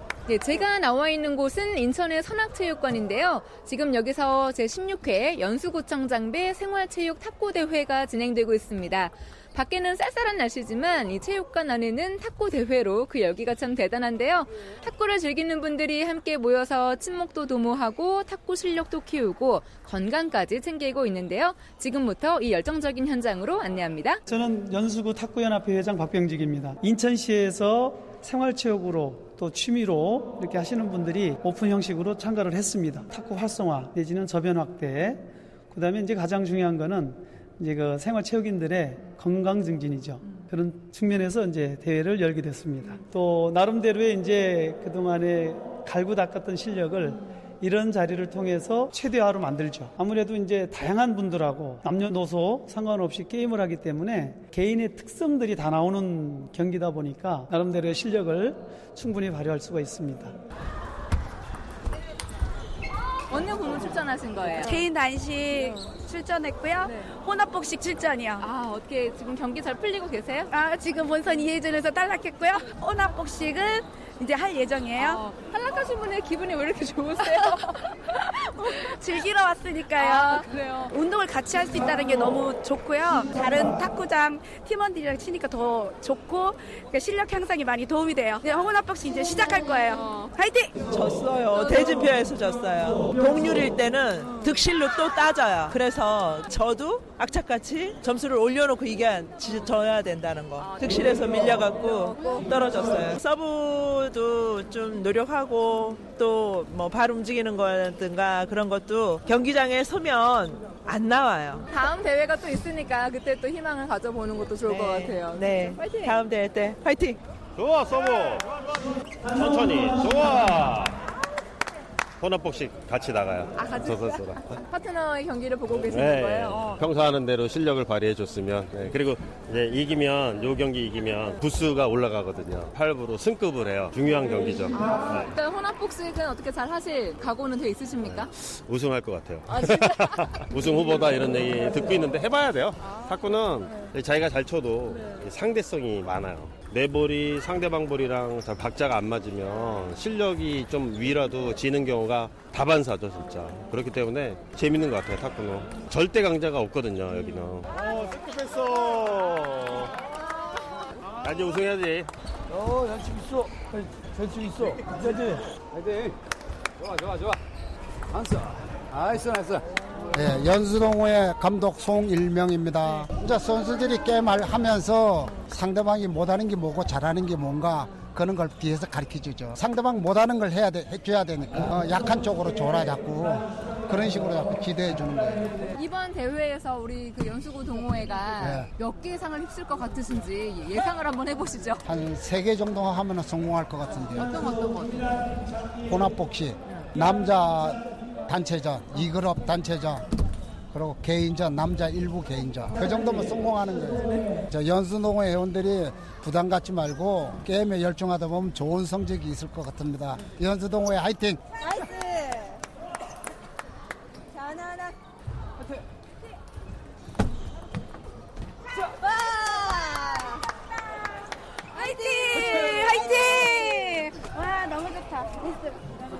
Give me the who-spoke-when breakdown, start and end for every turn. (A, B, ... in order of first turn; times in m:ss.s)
0:00.3-0:24.2 A
0:24.3-1:00.4 B
1:03.3-1:04.9 A
1:04.5-1:08.5 C
1:08.4-1:10.5 A
1:10.5-1:15.2 C
1:15.0-1:18.1 A
1:17.2-1:17.6 C
1:18.4-1:30.8 C
1:20.0-1:20.9 A
1:30.9-1:51.6 D
1:51.7-1:56.1 A
1:54.6-1:57.2 D
1:57.6-1:58.5 E
1:59.3-2:00.9 E
2:02.2-2:04.6 E
2:03.6-2:06.8 A
2:05.7-2:15.3 E
2:14.7-2:18.3 A
2:18.0-2:39.9 E
2:19.5-2:20.4 A
2:41.2-2:42.1 E
2:42.5-2:46.1 F
2:46.8-2:47.4 F
2:48.1-2:49.6 F
2:50.1-3:05.5 G
3:05.7-3:11.8 A
3:08.4-3:08.7 G
3:11.8-3:14.4 G
3:14.2-3:15.2 A
3:15.9-3:20.0 G
3:20.7-3:31.4 G
3:39.5-3:40.1 C
3:41.7-3:44.1 A
3:41.7-3:45.8 C